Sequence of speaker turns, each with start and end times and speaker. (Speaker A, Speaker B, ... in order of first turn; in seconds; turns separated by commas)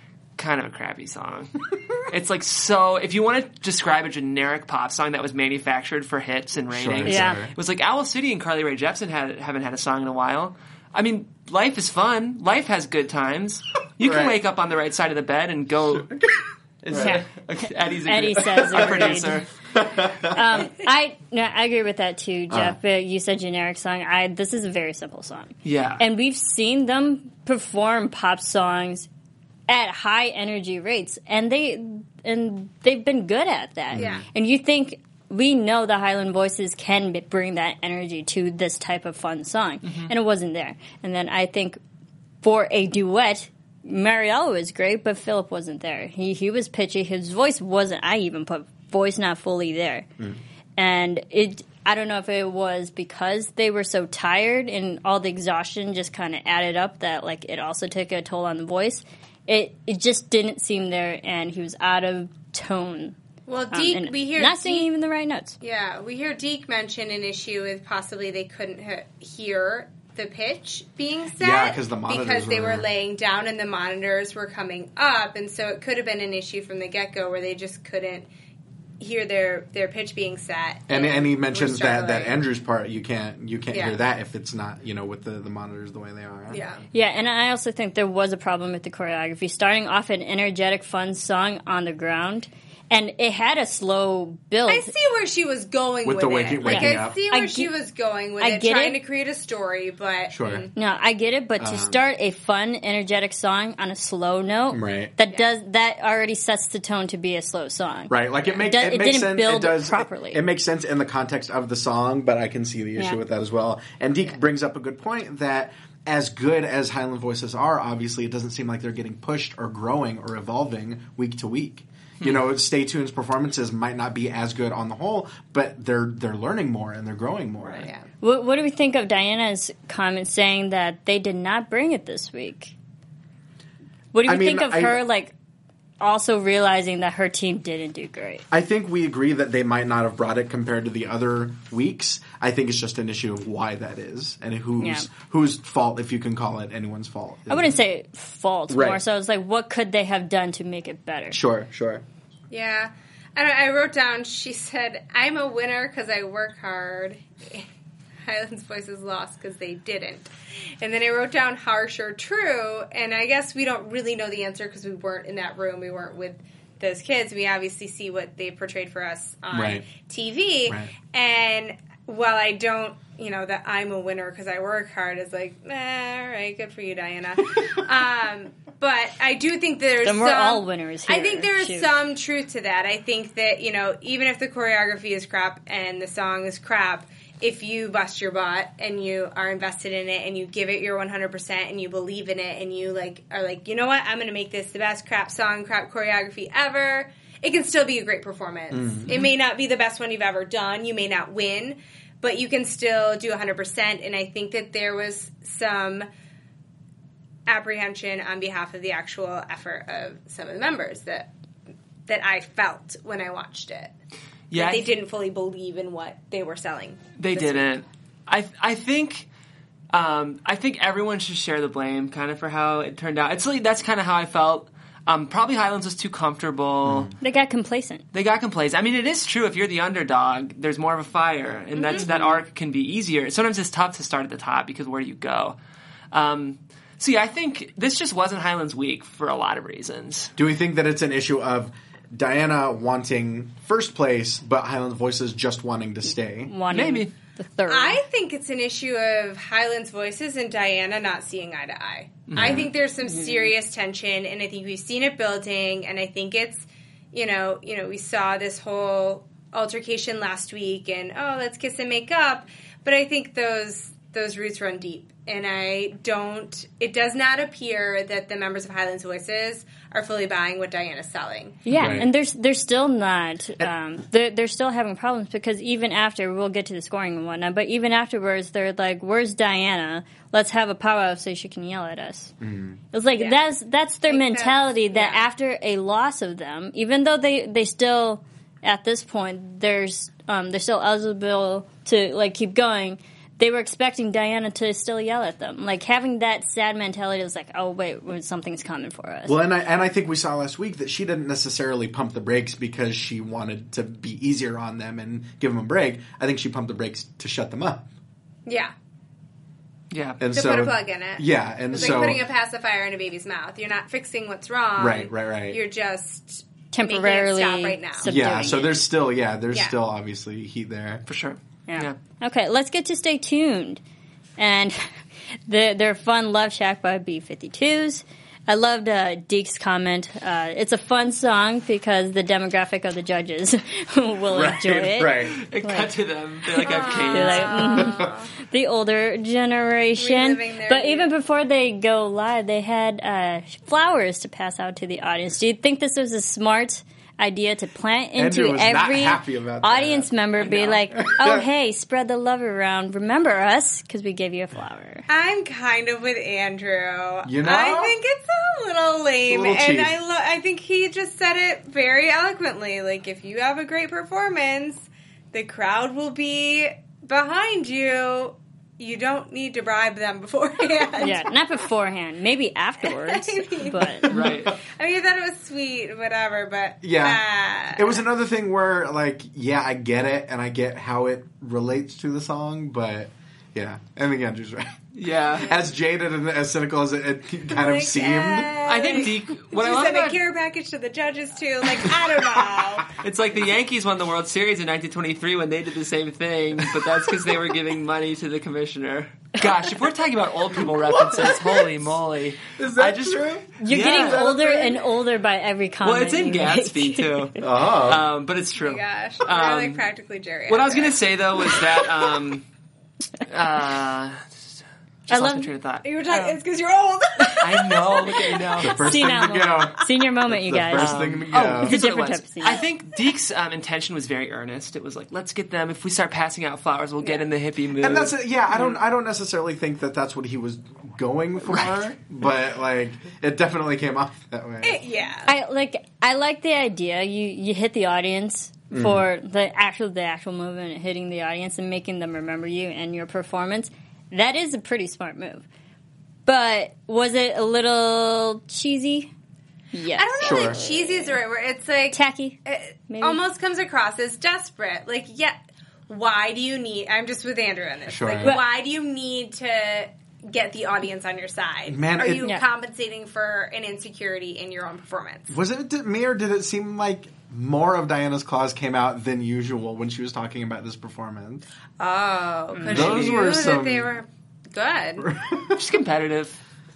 Speaker A: 0.4-16.1, Speaker B: 6.7-7.5, Speaker C: 7.0-7.4, Speaker B: 14.0-14.4, Speaker B: 15.9-17.2, Speaker A: 16.9-19.5, Speaker C: 17.0-17.2, Speaker C: 18.1-19.4, Speaker B: 18.7-19.2, Speaker B: 19.7-20.7, Speaker C: 20.0-29.1, Speaker B: 22.5-22.8, Speaker A: 25.6-26.0, Speaker C: 29.7-41.8, Speaker B: 33.9-34.2, Speaker D: 34.0-34.2, Speaker C: 42.4-50.1, Speaker C: 50.8-63.1, Speaker D: 63.5-64.9, Speaker C: 63.7-65.6, Speaker D: 65.6-78.3, Speaker B: 71.4-72.9, Speaker D: 79.0-82.4, Speaker B: 80.9-86.6, Speaker D: 83.7-84.0, Speaker D: 86.5-86.8, Speaker C: 86.9-94.9, Speaker D: 94.7-100.7, Speaker B: 96.0-97.2, Speaker C: 96.7-97.7, Speaker C: 98.4-99.0, Speaker B: 100.3-100.7, Speaker C: 100.8-110.4, Speaker B: 101.6-102.0, Speaker B: 104.7-105.1, Speaker B: 108.1-127.9, Speaker D: 127.7-128.1, Speaker C: 128.2-132.7, Speaker C: 134.1-135.3, Speaker B: 134.2-135.0, Speaker C: 136.0-138.4, Speaker B: 138.5-147.8, Speaker C: 144.8-145.1, Speaker C: 147.5-151.4, Speaker B: 148.7-149.0, Speaker B: 151.3-152.0, Speaker D: 152.5-157.7, Speaker D: 158.3-206.1, Speaker B: 169.5-169.8, Speaker B: 170.7-170.9, Speaker C: 180.0-182.0, Speaker B: 198.7-199.2, Speaker D: 207.5-211.3, Speaker D: 212.1-213.9, Speaker A: 214.5-214.9, Speaker D: 214.6-217.7, Speaker A: 217.2-219.3, Speaker A: 219.9-227.2, Speaker B: 226.8-227.1, Speaker C: 227.2-228.0, Speaker A: 228.1-235.6, Speaker D: 231.8-232.1, Speaker C: 231.9-232.4, Speaker A: 236.1-240.3, Speaker B: 240.4-246.5, Speaker C: 246.5-248.0, Speaker A: 246.7-247.1, Speaker D: 247.7-271.6, Speaker A: 252.3-252.7, Speaker B: 252.3-252.7, Speaker C: 253.0-253.5, Speaker C: 271.7-282.3, Speaker A: 271.7-272.0, Speaker B: 271.8-272.1, Speaker B: 282.4-282.8, Speaker C: 282.9-299.4, Speaker D: 283.1-283.4, Speaker D: 284.1-285.2, Speaker B: 299.3-307.9, Speaker D: 308.5-308.7, Speaker A: 309.9-310.2, Speaker B: 310.2-312.3, Speaker D: 310.3-318.2, Speaker A: 311.7-312.1, Speaker B: 314.8-315.6, Speaker C: 316.7-318.7, Speaker B: 318.0-321.0, Speaker A: 321.1-322.0, Speaker C: 321.7-323.8, Speaker C: 324.4-324.8, Speaker C: 325.5-335.9, Speaker B: 334.3-335.4, Speaker A: 335.3-337.9, Speaker D: 336.6-338.3, Speaker C: 337.1-355.1, Speaker D: 340.0-341.1, Speaker B: 348.1-350.1, Speaker A: 350.4-350.8, Speaker B: 351.0-351.5, Speaker D: 355.1-371.3, Speaker B: 357.2-358.0, Speaker B: 359.3-359.9, Speaker C: 371.0-374.1, Speaker D: 372.8-378.0, Speaker A: 374.1-374.6, Speaker B: 374.1-374.5, Speaker B: 376.8-377.2, Speaker B: 377.7-384.8, Speaker A: 384.9-385.5, Speaker D: 385.3-385.6, Speaker B: 385.4-388.6, Speaker D: 387.5-392.9, Speaker A: 388.6-390.2, Speaker A: 393.0-404.2, Speaker B: 400.7-401.9, Speaker B: 402.5-404.9, Speaker C: 403.6-407.4, Speaker A: 405.8-409.9, Speaker B: 407.4-408.1, Speaker D: 408.6-411.9, Speaker A: 410.5-412.5, Speaker A: 413.3-414.2, Speaker A: 415.1-416.4, Speaker C: 415.1-415.5, Speaker D: 415.8-418.6, Speaker A: 417.4-419.0, Speaker B: 418.6-421.8, Speaker C: 418.7-421.0, Speaker A: 420.8-428.1, Speaker C: 421.6-422.6, Speaker B: 427.8-434.8, Speaker A: 431.4-431.9, Speaker D: 434.6-435.3, Speaker C: 435.3-445.4, Speaker B: 438.7-439.1, Speaker C: 446.3-449.1, Speaker C: 449.7-451.2, Speaker D: 449.9-455.4, Speaker B: 450.2-450.6, Speaker C: 451.9-452.4, Speaker C: 452.9-453.2, Speaker D: 455.9-465.3, Speaker B: 457.9-458.4, Speaker B: 461.7-462.3, Speaker B: 465.3-471.5, Speaker D: 471.8-475.1, Speaker A: 472.6-473.3, Speaker B: 472.7-473.9, Speaker B: 475.0-475.6, Speaker A: 475.5-476.4